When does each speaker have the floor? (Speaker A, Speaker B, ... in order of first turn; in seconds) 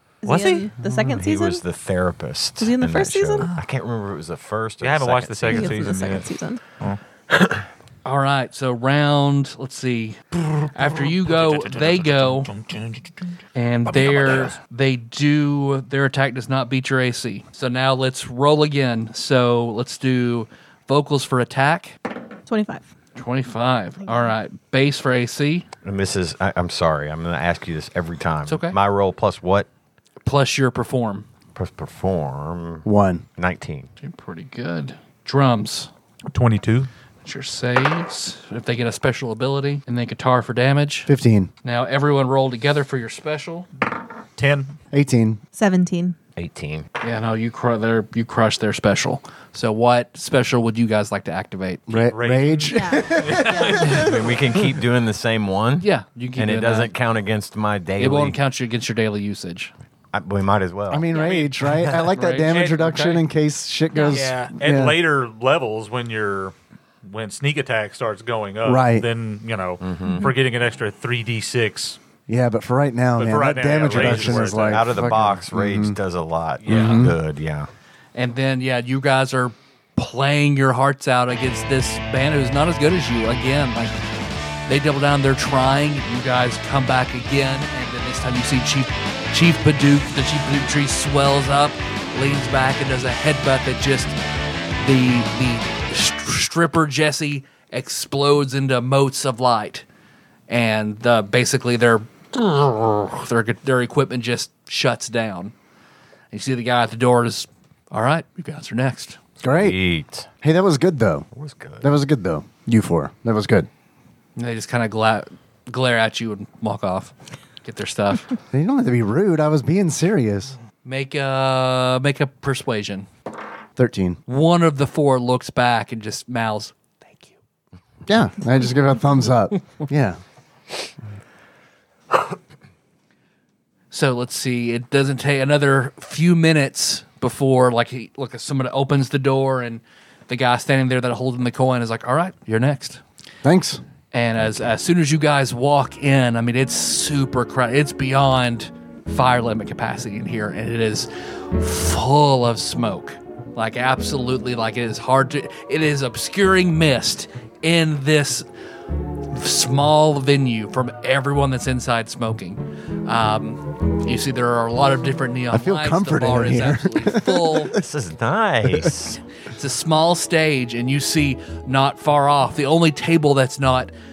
Speaker A: 0.2-1.6, 2.6-3.5, 5.5-6.6, 22.5-22.9, 45.5-46.2, 52.7-54.1, 63.9-64.2
Speaker B: 0.2-0.7, 4.8-6.3, 10.5-13.2, 13.9-14.5, 36.3-36.9, 44.4-44.7, 52.1-54.1, 61.1-61.5, 64.0-66.5, 67.1-72.0, 73.2-74.8, 76.7-77.1
Speaker C: 1.1-6.0, 7.3-7.6, 25.8-29.7, 31.6-32.9, 33.4-33.9, 46.4-46.9, 53.8-58.4, 60.1-61.1, 69.8-70.3, 73.9-77.7, 109.5-110.3, 111.3-111.9, 167.7-169.2
Speaker D: 8.1-12.5, 13.6-21.9, 23.1-25.7, 28.4-28.8, 30.2-31.3, 34.0-35.9, 37.2-41.1, 41.6-43.7, 47.0-51.9, 55.8-56.9, 58.0-59.7, 61.6-63.2, 78.2-83.9, 84.7-94.2, 94.8-99.8, 100.5-105.5, 106.3-109.2, 114.4-118.3, 120.8-123.1, 124.3-127.4, 133.9-143.0, 144.1-158.4, 159.2-167.7, 169.5-173.9
Speaker E: 32.9-33.2, 41.1-41.5, 44.9-45.4, 51.9-54.1, 60.9-65.0, 68.7-69.1, 72.3-76.0, 76.7-77.2, 109.4-109.8, 110.4-111.3, 111.8-113.7, 118.5-120.6, 123.8-124.2, 128.1-130.2, 143.4-143.8, 165.5-167.8